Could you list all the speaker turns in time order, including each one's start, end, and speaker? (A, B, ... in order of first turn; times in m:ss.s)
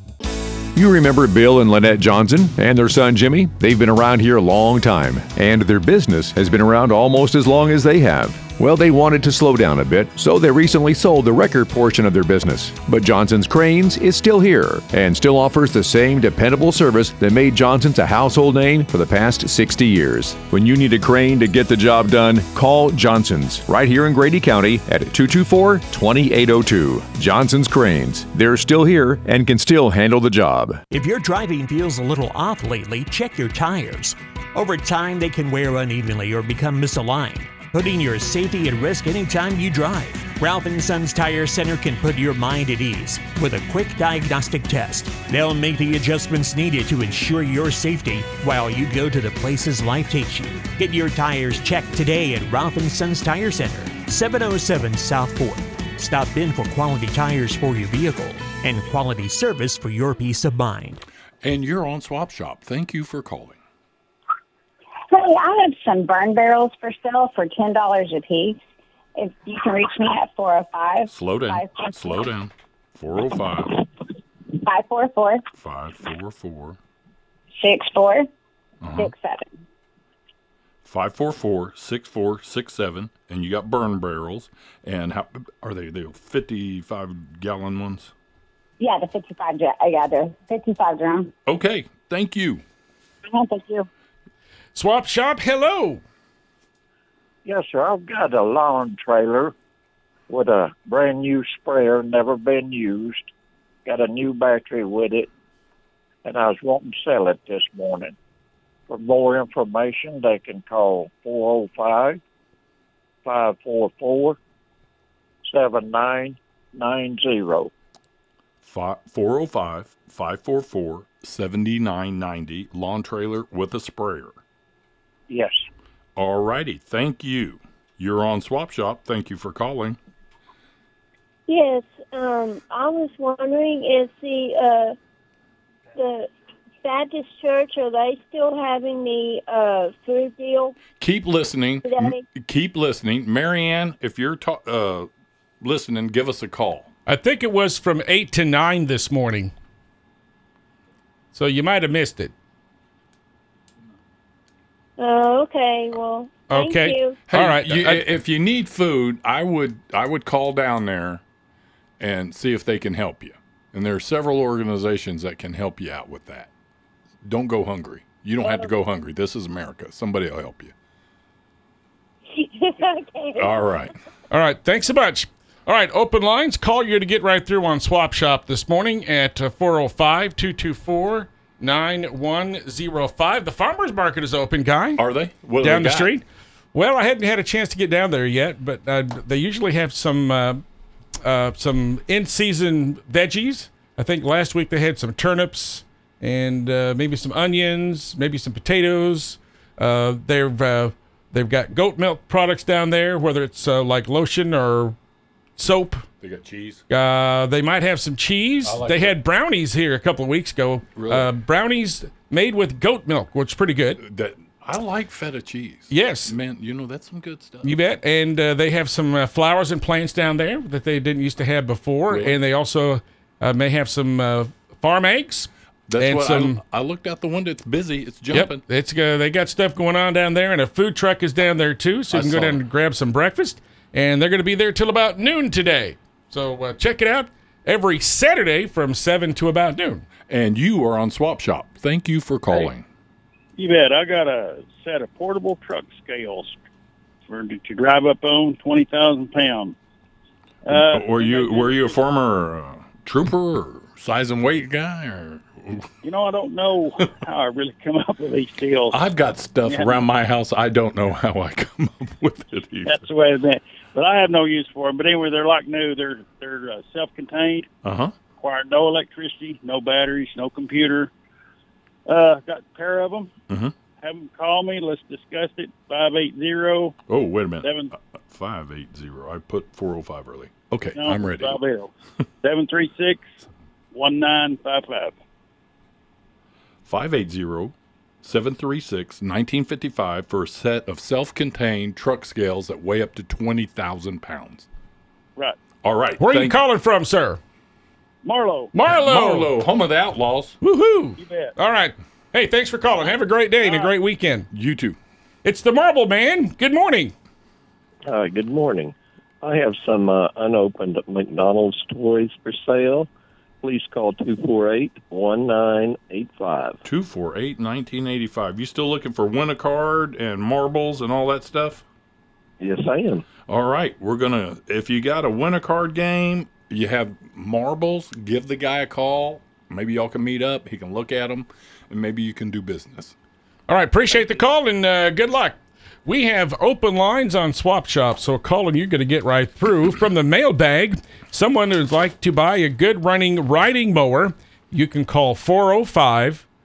0:00.7-0:30.8 A
0:30.9-1:01.0 B
1:01.4-1:03.6 C
1:05.1-1:08.6 D
1:09.2-1:12.3 D
1:11.1-1:13.8 C
1:14.5-1:15.4 D
1:15.5-1:16.8 C
1:17.5-1:18.2 D
1:18.8-1:19.1 C
1:19.0-1:19.6 D
1:20.8-1:28.1 C
1:28.8-1:31.3 D
1:31.5-1:32.6 C
1:33.2-1:33.9 D
1:34.7-1:36.0 E
1:37.4-1:39.5 F
1:40.3-1:43.3 F
1:43.8-1:45.3 F
1:46.2-1:48.1 F
1:48.9-1:52.2 F
1:53.2-1:54.4 F
1:55.4-1:57.7 F
1:58.6-2:04.4 C
2:05.3-2:05.6 F
2:06.2-2:10.0 C
2:11.5-2:15.0 G
2:15.9-2:16.3 G
2:16.8-2:20.8 G
2:21.0-2:25.1 C
2:21.8-2:22.2 G
2:25.6-2:26.9 C
2:27.0-2:29.5 E
2:31.3-2:32.3 E
2:35.0-2:37.2 G
2:36.5-2:38.1 E
2:37.3-2:41.2 C
2:42.0-2:46.5 C
2:47.2-2:50.7 C
2:53.4-2:53.9 C
2:54.3-3:05.0 E
3:05.0-3:06.1 C
3:05.6-3:06.2 E
3:06.7-3:10.6 E
3:11.2-3:25.0 E
3:25.6-3:26.0 E
3:26.2-3:26.8 C
3:26.9-3:34.0 E
3:28.6-3:29.1 C
3:31.0-3:31.3 C
3:34.0-3:37.8 C
3:35.9-3:36.3 E
3:37.6-3:46.6 E
3:42.1-3:42.4 C
3:45.9-3:48.6 C
3:48.3-4:00.0 E
3:52.1-3:52.6 C
4:00.3-4:02.8 C
4:03.6-4:06.6 H
4:07.3-4:09.8 H
4:10.6-4:12.0 H
4:10.7-4:15.9 C
4:16.0-4:19.0 H
4:18.9-4:23.0 C
4:19.6-4:20.0 H
4:22.8-4:27.7 H
4:27.8-4:28.1 C
4:28.4-4:31.1 H
4:32.0-4:33.3 H
4:33.5-4:33.7 C
4:34.0-4:36.9 H
4:37.1-4:41.6 C
4:37.6-4:37.9 H
4:40.9-4:41.9 H
4:42.4-4:43.3 H
4:43.9-4:45.2 H
4:46.8-4:54.7 C
4:55.8-4:56.6 C
4:56.2-4:57.4 E
4:58.2-4:58.7 H
4:58.7-4:59.5 E
4:58.9-5:00.6 C
5:00.6-5:04.5 E
5:01.2-5:01.5 H
5:03.6-5:03.9 H
5:04.5-5:05.0 C
5:05.4-5:07.1 E
5:08.0-5:13.1 I
5:13.6-5:16.8 I
5:16.8-5:21.8 C
5:22.6-5:23.2 I
5:23.4-5:33.1 C
5:33.7-5:46.4 E